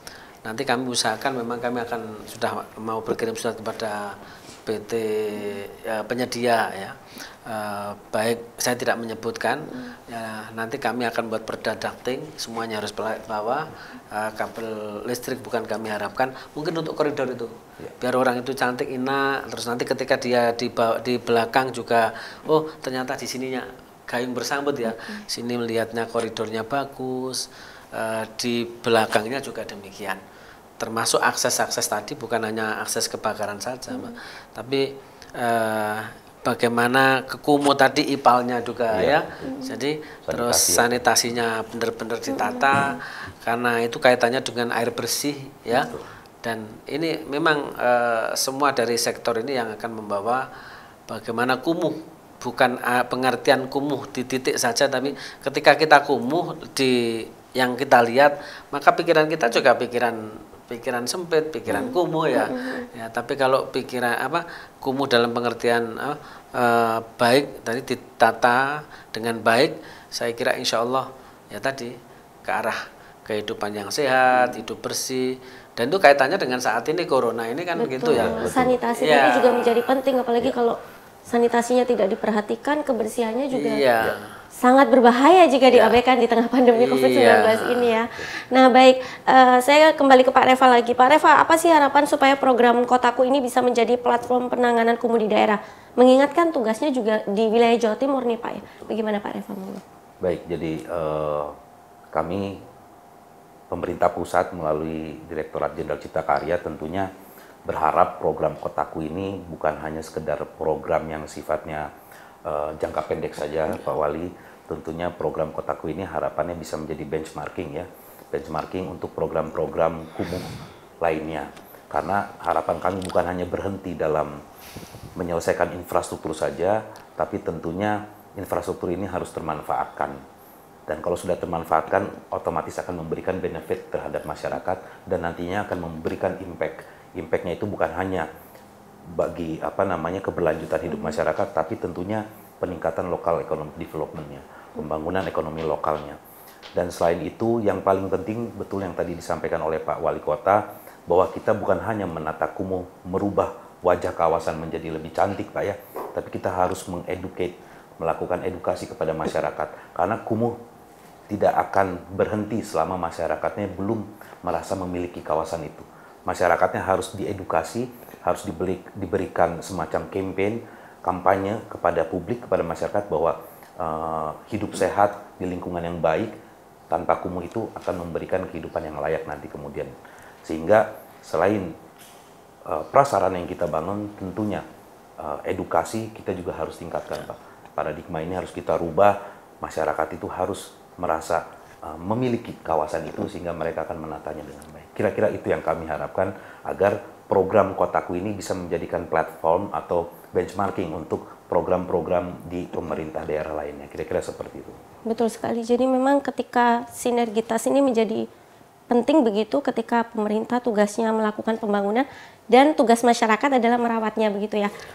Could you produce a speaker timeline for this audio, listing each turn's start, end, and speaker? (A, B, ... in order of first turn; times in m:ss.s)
0:00.4-0:30.2 A
0:30.8-0:50.4 A
0:38.9-0:39.6 B
0:40.3-0:41.2 B
0:42.4-0:42.9 C
0:45.7-0:46.1 B
0:51.1-1:19.9 A
1:01.7-1:02.9 C
1:17.8-1:23.8 C
1:18.1-1:18.8 B
1:23.5-1:24.2 A
1:24.6-1:39.8 C
1:25.7-1:26.0 A
1:26.7-1:27.9 A
1:40.2-1:41.5 B
1:42.1-1:42.6 B
1:43.7-1:47.1 B
1:47.6-1:51.9 B
1:52.4-2:00.5 B
2:01.0-2:04.3 B
2:05.2-2:10.2 B
2:10.9-2:18.3 B
2:19.1-2:26.2 B
2:26.7-2:40.6 B
2:41.3-2:56.3 B
2:56.9-2:59.9 B
3:00.4-3:01.7 B
3:02.7-3:04.6 B
3:05.2-3:24.8 B
3:25.1-3:28.2 C
3:28.9-3:34.7 C